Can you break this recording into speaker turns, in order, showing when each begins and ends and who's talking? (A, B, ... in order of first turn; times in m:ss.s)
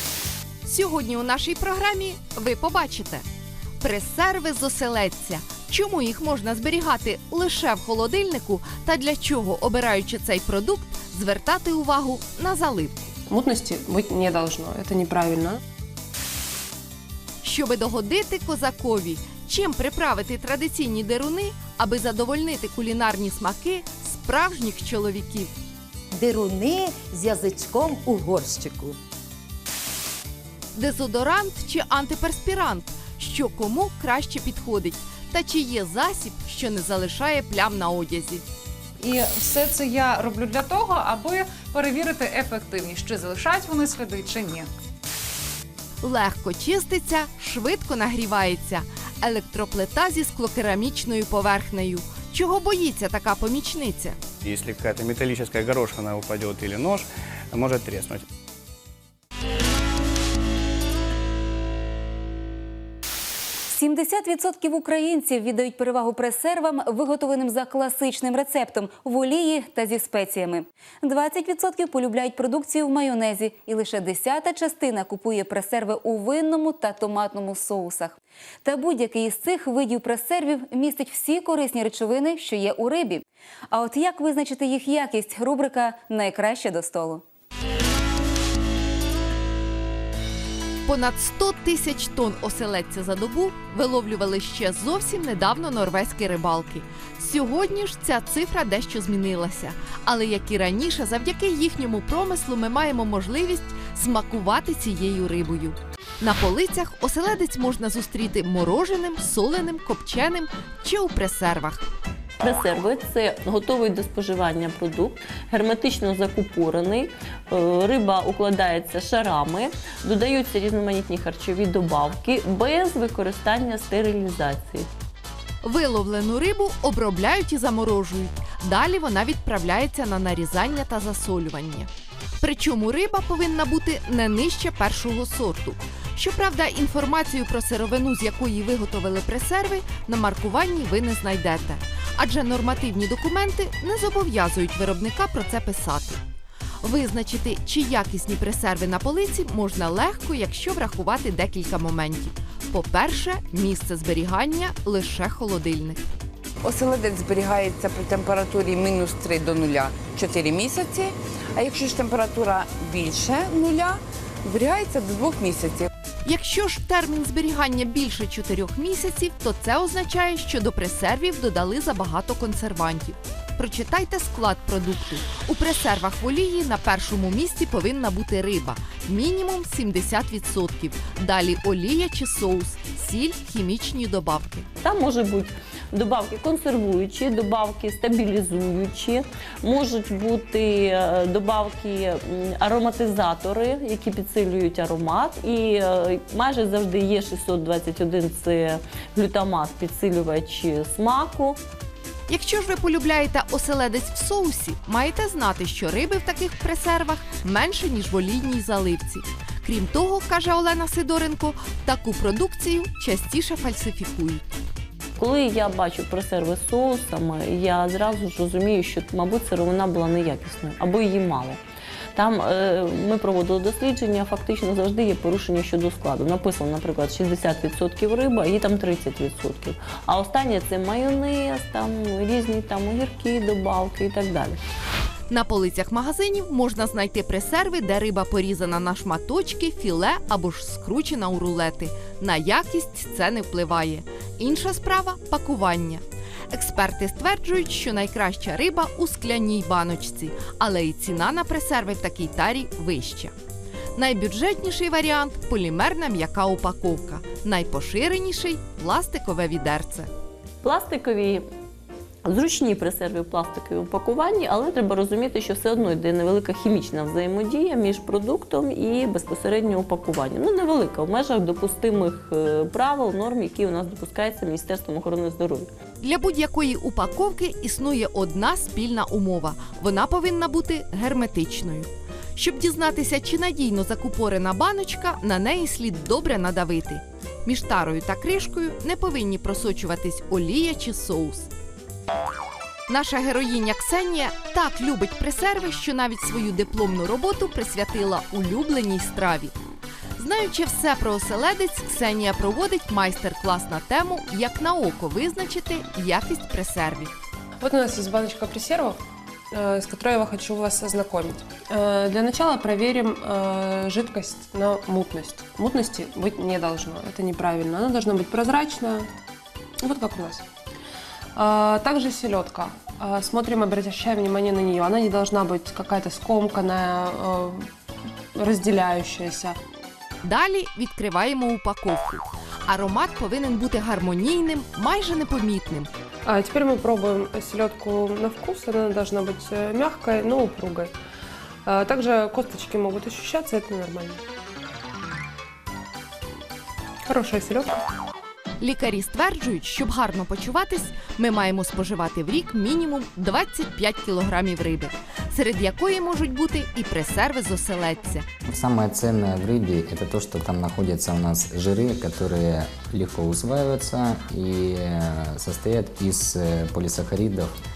0:00.6-0:03.2 A
0:03.8-0:13.1 A
0:13.3-0:15.6 B
0:17.4-0:25.5 A
0:26.1-0:29.0 C
0:30.7-0:38.4 A
0:39.0-0:44.7 D
0:46.0-0:54.2 A
0:54.4-0:58.2 E
1:03.7-1:27.2 F
1:30.8-1:51.8 A
1:52.4-2:04.9 G
2:05.6-2:11.9 A
2:12.4-2:26.2 A
2:26.8-2:36.0 A
2:36.6-2:45.9 H
2:46.2-3:04.7 A
3:04.8-3:21.6 G
3:22.3-3:34.4 A
3:35.2-3:41.6 G
3:42.2-3:54.6 G
3:55.3-4:13.3 A
4:14.0-4:20.1 A
4:20.6-4:21.4 G
4:22.2-4:35.7 G
4:36.0-4:51.5 A
4:52.9-4:59.5 A
5:00.2-5:07.1 A
5:07.6-5:09.0 B
5:09.5-5:19.1 B
5:19.8-5:20.4 B
5:21.3-5:27.7 B
5:28.3-5:29.6 B
5:30.2-5:35.9 A
5:36.2-5:40.9 B
5:41.6-5:44.2 B
5:47.1-5:47.8 B
5:48.6-5:58.2 A
5:58.4-6:07.5 I